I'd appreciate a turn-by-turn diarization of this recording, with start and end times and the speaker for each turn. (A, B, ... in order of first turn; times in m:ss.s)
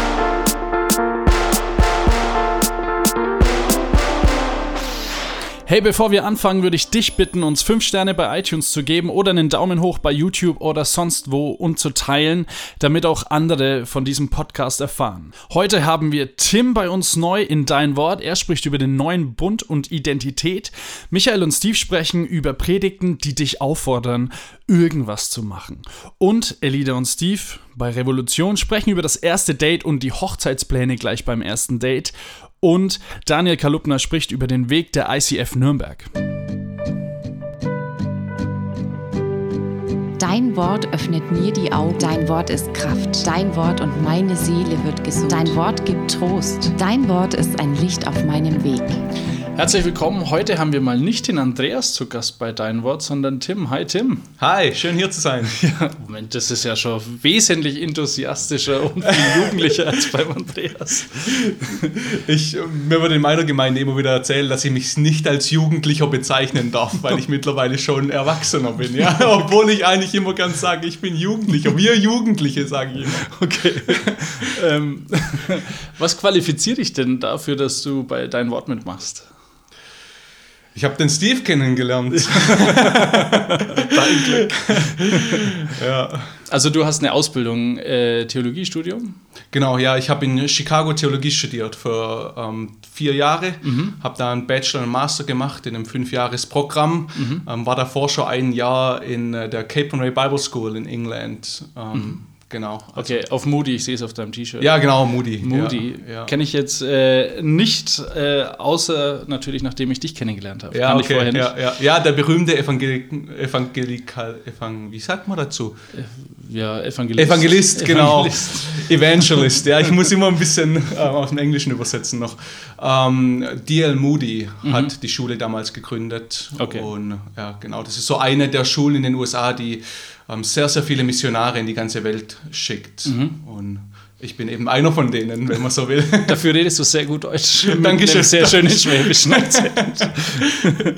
0:05.7-0:36.1 A
0:40.2-0:49.0 B
0:49.5-0:54.3 A
0:54.4-0:55.6 C
0:55.6-1:01.5 A
0:59.2-0:59.8 C
1:01.1-1:14.0 C
1:13.2-1:19.3 A
1:20.8-1:26.4 C
1:22.3-1:25.2 A
1:26.5-1:29.2 A
1:29.5-1:43.3 C
1:33.6-1:34.0 A
1:37.2-1:37.5 A
1:41.9-1:42.2 A
1:42.9-1:51.6 A
1:44.6-1:46.3 C
1:50.7-1:55.8 C
1:55.9-1:59.6 A
1:57.2-2:16.4 C
2:04.6-2:04.9 A
2:06.6-2:06.9 A
2:13.0-2:13.4 A
2:16.2-2:20.7 A
2:17.6-2:20.2 C